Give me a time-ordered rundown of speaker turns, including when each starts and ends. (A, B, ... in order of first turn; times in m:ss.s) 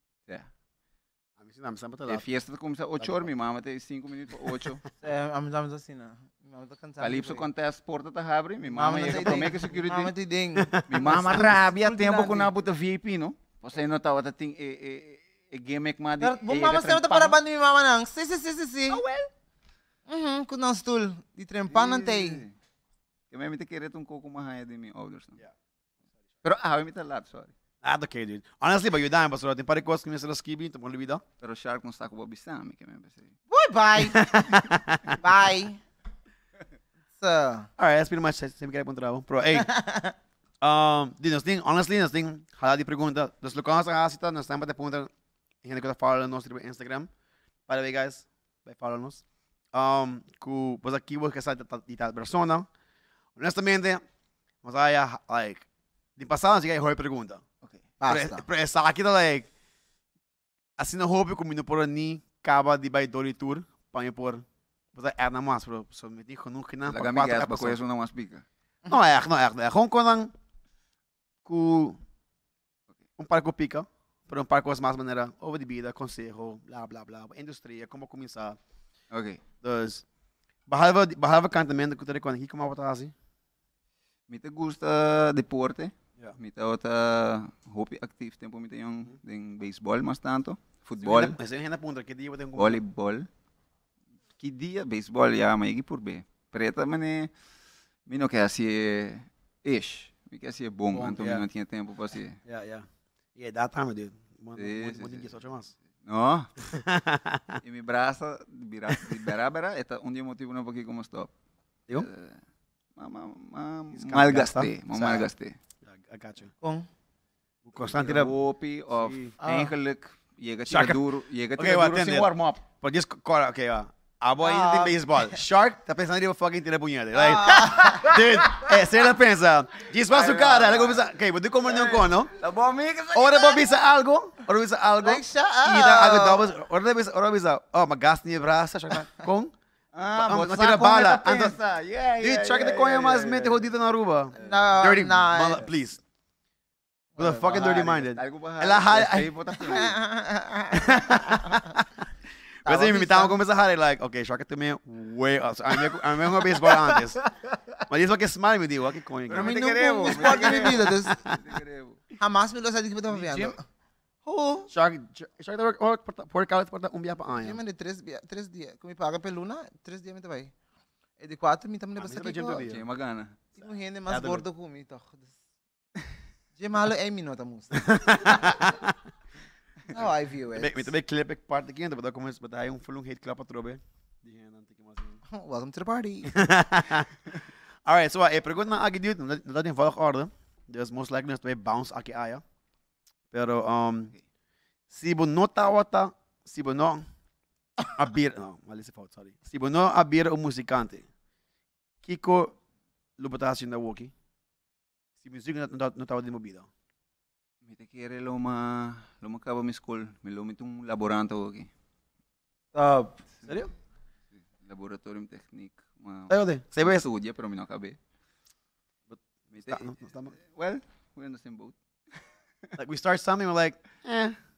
0:01.4-0:02.2 A
0:02.1-0:04.8 B
0:03.0-0:03.3 A
0:05.0-0:07.4 C
0:07.0-0:10.1 B
0:08.6-0:12.5 C
0:10.6-0:11.5 A
0:10.9-0:17.4 B
0:16.2-0:19.0 C
0:18.9-0:19.3 B
0:20.1-0:22.4 C
0:21.7-0:22.6 B
0:23.3-0:25.4 B
0:26.4-0:27.5 B
0:27.8-0:31.2 A
0:31.4-0:33.4 B
0:33.5-0:34.3 C
0:34.0-0:35.2 A
0:35.2-0:35.8 C
0:37.2-0:37.7 C
0:37.8-0:39.7 A
0:39.5-0:40.2 C
0:40.6-0:45.1 A
0:45.6-0:47.1 A
0:47.7-0:52.7 A
0:53.4-0:54.0 A
0:54.6-0:55.7 A
0:56.2-0:57.4 A
0:58.0-0:58.5 C
0:58.1-0:59.5 A
1:00.8-1:07.8 A
1:06.9-1:08.4 B
1:08.9-1:10.3 A
1:11.4-1:12.0 A
1:13.2-1:18.6 A
1:19.1-1:19.4 B
1:19.6-1:20.0 A
1:20.7-1:23.1 A
1:24.3-1:31.4 B
1:31.0-1:32.8 A
1:32.6-1:33.3 B
1:34.4-1:37.3 B
1:38.1-1:42.4 B
1:40.9-1:41.5 A
1:42.4-1:45.7 A
1:44.6-1:45.3 B
1:46.0-1:46.5 B
1:46.6-1:47.6 A
1:47.6-1:51.3 B
1:51.9-1:52.4 B
1:53.0-1:55.6 B
1:54.0-1:55.3 A
1:55.8-1:56.5 A
1:56.6-1:56.9 C
1:57.6-1:58.3 A
1:57.8-2:02.6 B
1:58.9-1:59.3 A
1:59.4-1:59.7 C
2:00.7-2:01.0 A
2:01.6-2:12.3 A
2:04.4-2:05.3 C
2:07.1-2:08.1 C
2:07.8-2:08.8 B
2:10.1-2:11.1 B
2:11.6-2:13.7 B
2:13.1-2:19.5 A
2:15.0-2:16.5 C
2:19.9-2:23.7 B
2:20.1-2:21.6 A
2:22.2-2:26.0 A
2:24.3-2:24.8 B
2:24.4-2:25.7 C
2:27.2-2:27.5 C
2:27.2-2:29.8 A
2:27.4-2:30.0 B
2:29.6-2:31.6 C
2:30.7-2:31.9 A
2:32.6-2:37.2 A
2:32.7-2:33.4 C
2:36.6-2:37.8 B
2:37.9-2:41.4 A
2:39.3-2:42.0 B
2:39.4-2:41.3 C
2:42.2-2:43.6 C
2:43.1-2:43.6 A
2:44.2-2:44.7 C
2:44.7-2:47.6 A
2:47.4-2:50.5 C
2:51.2-2:52.7 C
2:52.0-2:52.8 A
2:52.6-2:53.4 B
2:53.6-2:55.4 C
2:54.1-2:54.4 A
2:56.6-2:58.5 C
2:57.7-2:59.0 A
2:59.9-3:00.9 C
3:00.5-3:05.2 A
3:05.3-3:06.4 C
3:06.3-3:07.3 A
3:07.9-3:12.4 A
3:13.3-3:14.1 A
3:14.9-3:17.0 A
3:18.0-3:21.1 A
3:22.0-3:22.6 A
3:23.2-3:24.1 A
3:25.2-3:26.7 A
3:27.6-3:31.7 B
3:32.7-3:33.2 C
3:33.5-3:33.7 A
3:34.4-3:38.0 B
3:36.3-3:37.1 A
3:39.1-3:40.3 A
3:39.6-3:42.8 B
3:42.8-3:44.4 A